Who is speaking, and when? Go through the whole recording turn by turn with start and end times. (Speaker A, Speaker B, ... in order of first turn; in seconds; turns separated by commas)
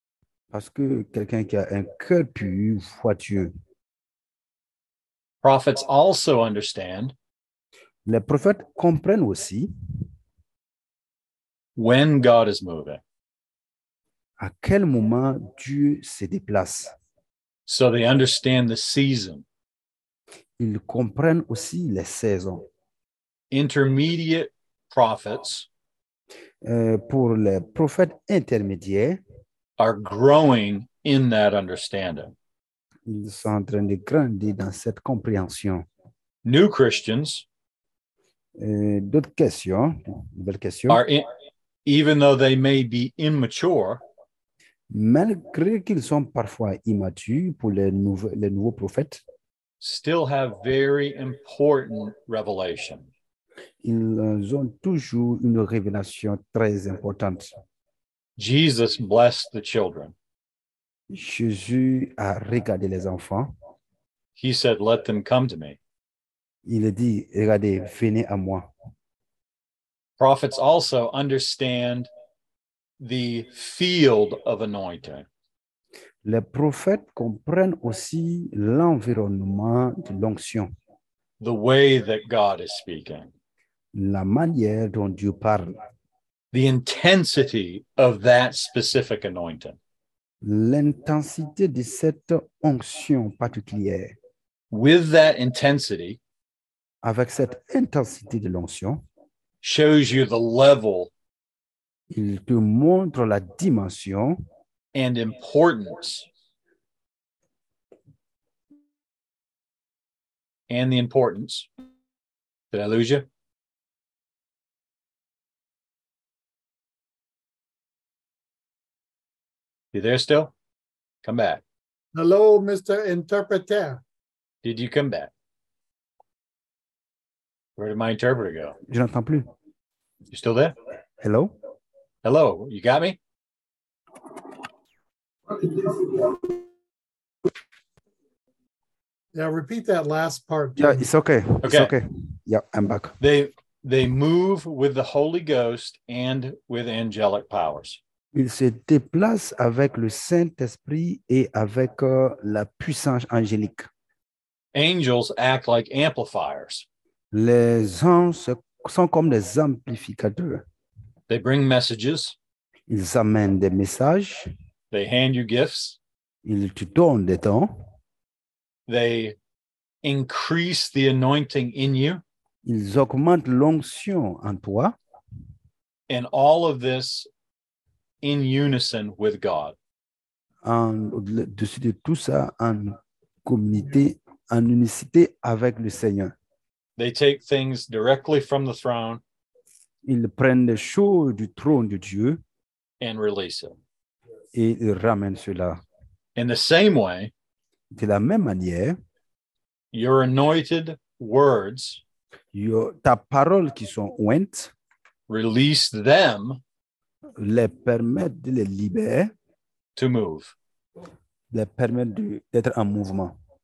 Speaker A: 0.5-3.5, Speaker B: 5.4-7.1, Speaker A: 8.0-9.7, Speaker B: 11.8-13.0, Speaker A: 14.4-16.9, Speaker B: 17.7-19.4, Speaker A: 20.6-22.7, Speaker B: 23.5-25.7, Speaker A: 26.6-29.2, Speaker B: 29.8-32.3, Speaker A: 33.0-35.8, Speaker B: 36.4-37.5, Speaker A: 38.6-41.0, Speaker B: 40.9-41.3, Speaker B: 41.8-44.0, Speaker A: 44.9-49.2, Speaker B: 49.8-53.1, Speaker A: 53.8-57.5, Speaker B: 58.4-60.1, Speaker A: 61.1-63.5, Speaker B: 64.3-65.8, Speaker A: 66.6-68.7, Speaker B: 70.2-72.1, Speaker B: 73.0-75.2, Speaker A: 76.2-80.7, Speaker B: 81.4-83.3, Speaker A: 83.9-85.8, Speaker B: 86.5-89.8, Speaker A: 90.4-94.1, Speaker B: 94.7-96.2, Speaker A: 97.0-99.0, Speaker B: 99.6-101.1, Speaker A: 102.1-104.4, Speaker B: 104.9-106.3, Speaker B: 110.7-111.7, Speaker B: 112.7-113.3, Speaker B: 119.9-120.5, Speaker B: 121.2-121.6, Speaker C: 122.1-124.0, Speaker B: 124.6-125.3, Speaker B: 127.8-128.8, Speaker A: 128.9-129.4, Speaker B: 130.3-130.7, Speaker A: 131.2-131.5, Speaker B: 132.2-133.2, Speaker C: 139.3-141.0, Speaker A: 140.8-143.2, Speaker B: 141.6-141.9, Speaker B: 143.2-148.0, Speaker A: 148.3-153.9, Speaker B: 154.7-156.8, Speaker A: 157.3-160.6, Speaker B: 161.3-162.3, Speaker A: 162.9-164.5, Speaker B: 164.9-166.0, Speaker A: 166.4-167.7, Speaker B: 168.9-169.3, Speaker B: 170.0-172.2, Speaker A: 172.6-174.9, Speaker B: 176.1-177.3, Speaker B: 178.2-179.7, Speaker A: 180.6-186.3, Speaker B: 187.0-189.2, Speaker A: 190.0-192.4, Speaker B: 193.0-193.8, Speaker A: 194.5-195.8, Speaker B: 196.3-197.3, Speaker A: 197.9-198.9, Speaker B: 199.9-202.0, Speaker A: 202.5-204.7, Speaker B: 205.3-206.6, Speaker A: 207.4-209.3, Speaker B: 209.9-210.5, Speaker A: 211.5-213.3